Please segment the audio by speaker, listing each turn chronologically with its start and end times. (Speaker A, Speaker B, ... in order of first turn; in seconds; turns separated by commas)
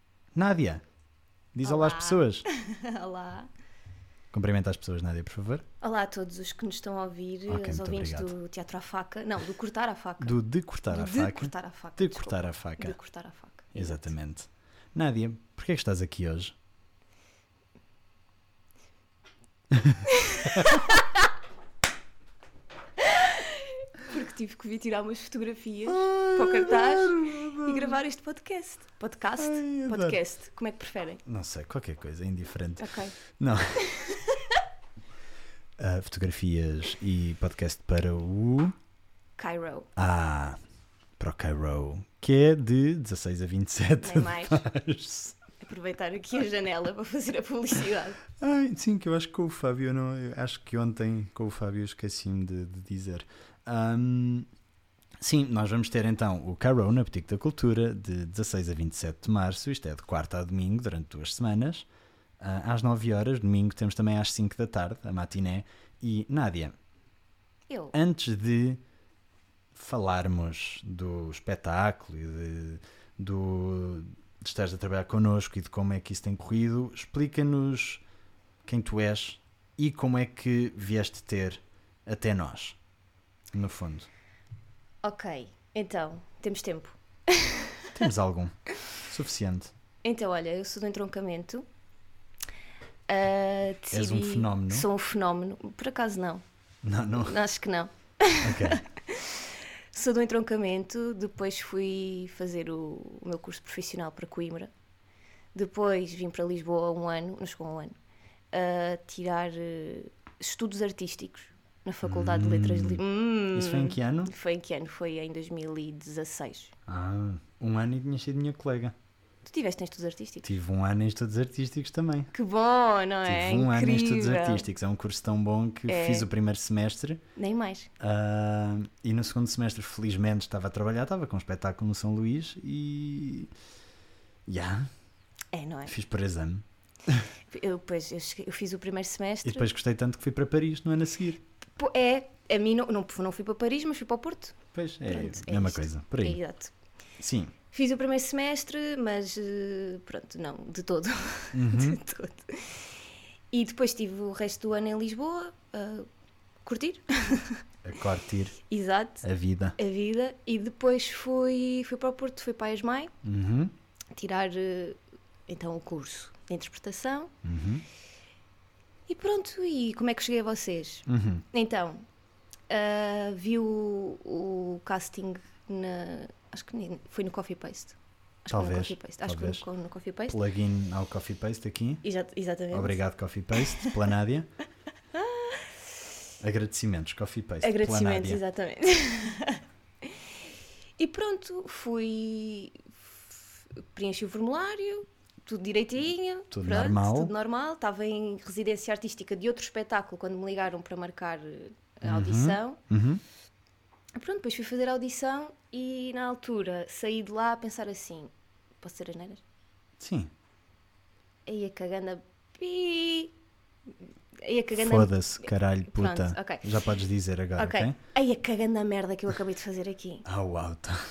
Speaker A: 0.3-0.8, Speaker A: 1.5-2.5, Speaker B: 1.6-3.5, Speaker A: 4.3-5.6, Speaker B: 5.8-10.3, Speaker A: 7.5-8.3, Speaker A: 10.2-12.9, Speaker B: 10.9-14.1, Speaker A: 13.7-16.6, Speaker B: 20.0-21.2, Speaker B: 23.0-31.2, Speaker A: 25.9-28.0, Speaker A: 29.4-30.2, Speaker A: 31.2-33.8, Speaker B: 32.8-33.2, Speaker B: 33.9-34.5, Speaker A: 35.8-38.7, Speaker B: 39.4-39.9, Speaker A: 40.0-40.6, Speaker A: 41.2-45.4, Speaker B: 44.0-44.6, Speaker B: 45.6-48.2, Speaker A: 48.4-54.5, Speaker A: 55.2-61.9, Speaker A: 62.4-66.7, Speaker B: 67.7-67.9, Speaker A: 67.9-68.8, Speaker A: 69.7-78.0, Speaker A: 78.6-82.8, Speaker A: 83.5-84.1, Speaker B: 85.0-87.9, Speaker A: 87.9-89.7, Speaker B: 90.0-91.6, Speaker B: 93.1-96.4, Speaker A: 93.9-94.9, Speaker A: 96.8-97.4, Speaker B: 97.2-104.7, Speaker A: 98.4-98.8, Speaker B: 105.5-108.0, Speaker B: 108.5-116.7, Speaker A: 112.0-113.0, Speaker A: 113.5-114.3, Speaker A: 116.9-118.9, Speaker B: 119.4-120.5, Speaker A: 120.4-122.3, Speaker B: 122.3-124.7, Speaker A: 123.2-127.2, Speaker B: 125.9-126.3, Speaker B: 127.3-127.9, Speaker A: 128.0-133.5, Speaker A: 134.5-134.9, Speaker B: 135.5-135.9, Speaker A: 135.9-137.2, Speaker B: 137.5-139.7, Speaker A: 139.4-141.4, Speaker B: 141.8-146.7, Speaker A: 144.7-146.4, Speaker A: 147.2-147.5, Speaker B: 147.7-152.8, Speaker A: 151.5-152.0, Speaker B: 153.5-156.1, Speaker B: 156.6-157.6, Speaker A: 157.8-158.6, Speaker B: 158.7-159.2, Speaker A: 159.2-159.8, Speaker B: 159.8-163.1, Speaker A: 163.2-163.7, Speaker B: 164.1-167.3, Speaker A: 167.4-167.8, Speaker B: 169.1-172.0, Speaker A: 171.1-171.4, Speaker B: 172.7-180.3, Speaker A: 178.5-179.7, Speaker A: 180.3-182.0, Speaker B: 182.0-183.0, Speaker A: 182.7-184.5, Speaker B: 183.5-183.9, Speaker B: 185.1-185.6, Speaker A: 186.4-188.4, Speaker B: 187.6-190.1, Speaker B: 191.0-192.9, Speaker B: 193.9-202.8, Speaker A: 196.5-197.3, Speaker A: 202.0-203.2, Speaker B: 204.2-209.4, Speaker A: 210.0-210.3, Speaker B: 211.4-213.3, Speaker B: 214.4-216.8, Speaker A: 214.7-217.9, Speaker B: 217.6-220.2, Speaker A: 220.2-221.0